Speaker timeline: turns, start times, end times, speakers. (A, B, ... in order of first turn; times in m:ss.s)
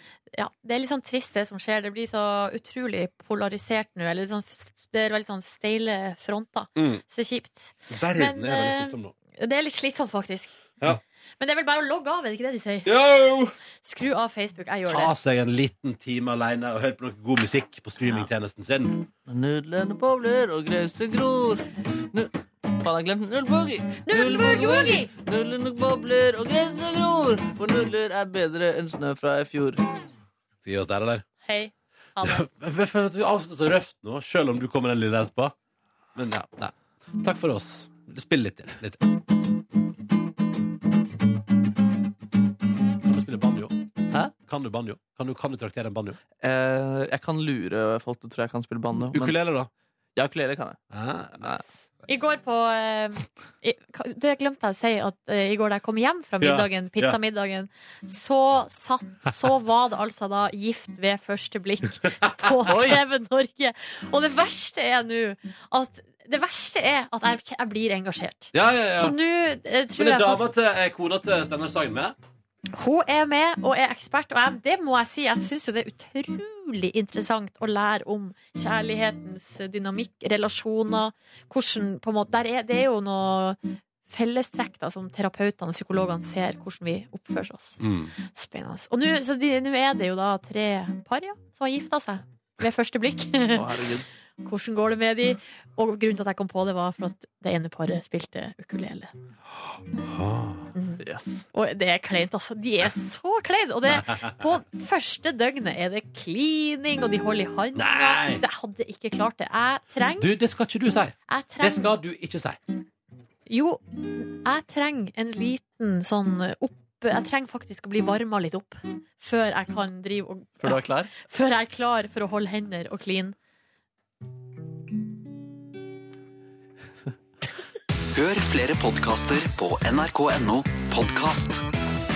0:00.3-0:10.6 A
0:06.8-0:07.0 B
0:07.9-0:09.1 B
0:11.4-0:12.9 A
0:12.8-0:13.6 B
0:13.8-0:15.1 A
0:14.9-0:19.1 B
0:19.3-0:29.8 C
0:24.1-0:25.1 A
0:30.6-0:31.2 B
0:31.4-0:32.4 A
0:32.2-0:35.5 B
0:36.2-0:39.0 B
0:43.0-0:43.8 B
0:44.4-0:46.2 B
0:46.4-0:49.4 C
0:49.0-0:49.7 B
0:50.2-0:50.8 C
0:50.9-0:51.6 B
0:52.1-1:10.4 A
0:56.4-0:57.2 B
1:02.7-1:03.0 C
1:08.5-1:09.2 B
1:10.0-1:12.2 B
1:12.7-1:33.7 A
1:27.8-1:28.1 B
1:33.5-1:34.1 C
1:34.4-1:39.1 A
1:40.0-1:40.7 B
1:40.8-1:41.0 A
1:41.0-1:41.4 C
1:41.5-1:50.3 A
1:43.9-1:44.3 B
1:47.8-1:48.4 B
1:50.2-1:52.6 B
1:51.3-1:51.9 A
1:53.5-2:03.4 A
2:00.6-2:01.1 C
2:08.2-2:11.6 D